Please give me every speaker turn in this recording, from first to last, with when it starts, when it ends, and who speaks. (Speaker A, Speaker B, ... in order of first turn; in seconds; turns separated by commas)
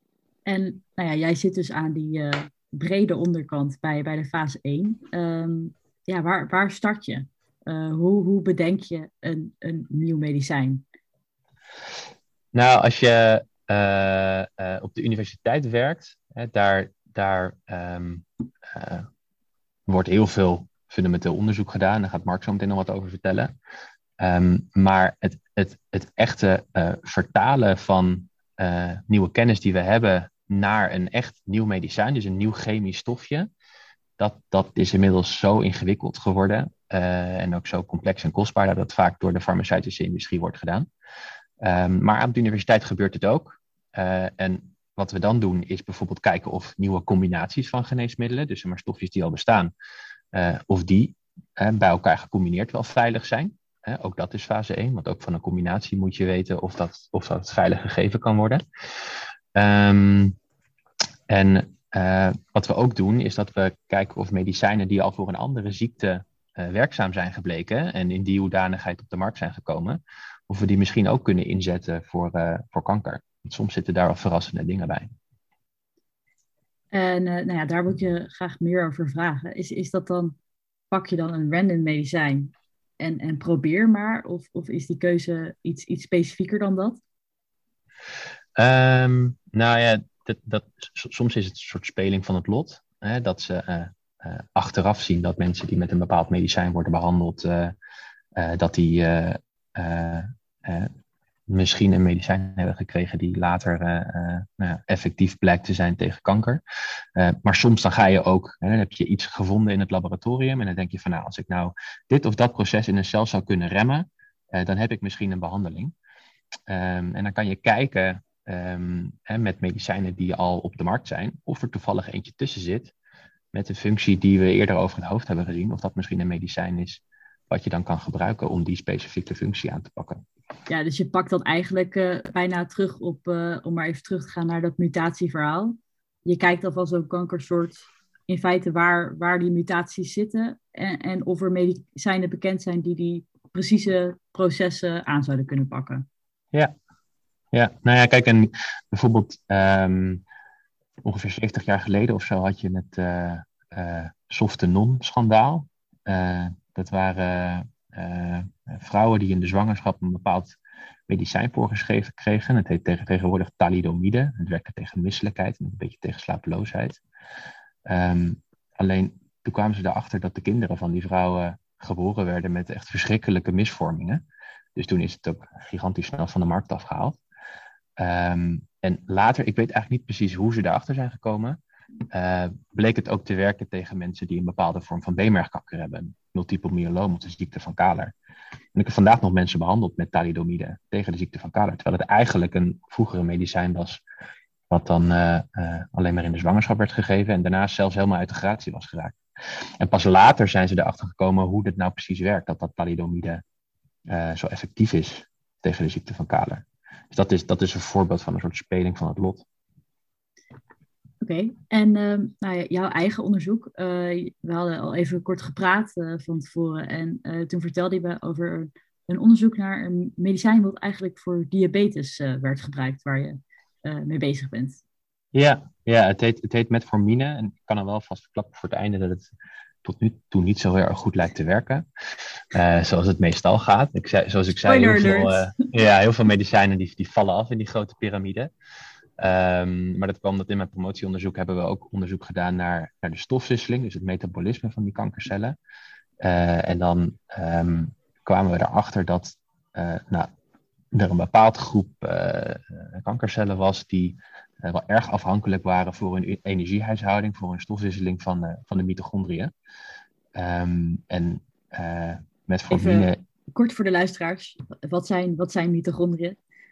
Speaker A: 0.5-10.8, Speaker B: 12.5-19.1, Speaker B: 19.9-23.5, Speaker B: 24.2-33.5, Speaker B: 34.2-40.9, Speaker B: 41.6-49.7, Speaker B: 50.3-58.6, Speaker B: 59.5-60.4, Speaker B: 61.3-75.1, Speaker A: 76.9-80.3, Speaker A: 80.9-87.0, Speaker B: 88.6-97.7, Speaker B: 98.3-100.9, Speaker B: 101.5-106.6, Speaker B: 107.2-115.9, Speaker B: 116.7-122.9, Speaker B: 123.5-130.2, Speaker A: 130.7-146.1, Speaker B: 147.5-150.2, Speaker B: 151.0-160.6, Speaker B: 161.1-167.0, Speaker B: 167.9-174.2, Speaker B: 174.8-177.2, Speaker B: 178.0-181.6, Speaker B: 182.1-188.1, Speaker B: 188.7-194.0, Speaker B: 194.7-199.2, Speaker B: 199.8-203.4, Speaker B: 204.1-209.4, Speaker A: 211.2-224.8, Speaker B: 225.3-229.3, Speaker B: 229.8-231.8, Speaker B: 232.5-238.5, Speaker A: 234.6-235.6, Speaker B: 239.2-245.6, Speaker B: 246.2-250.3, Speaker B: 250.9-259.5, Speaker B: 260.3-263.2, Speaker A: 262.7-266.4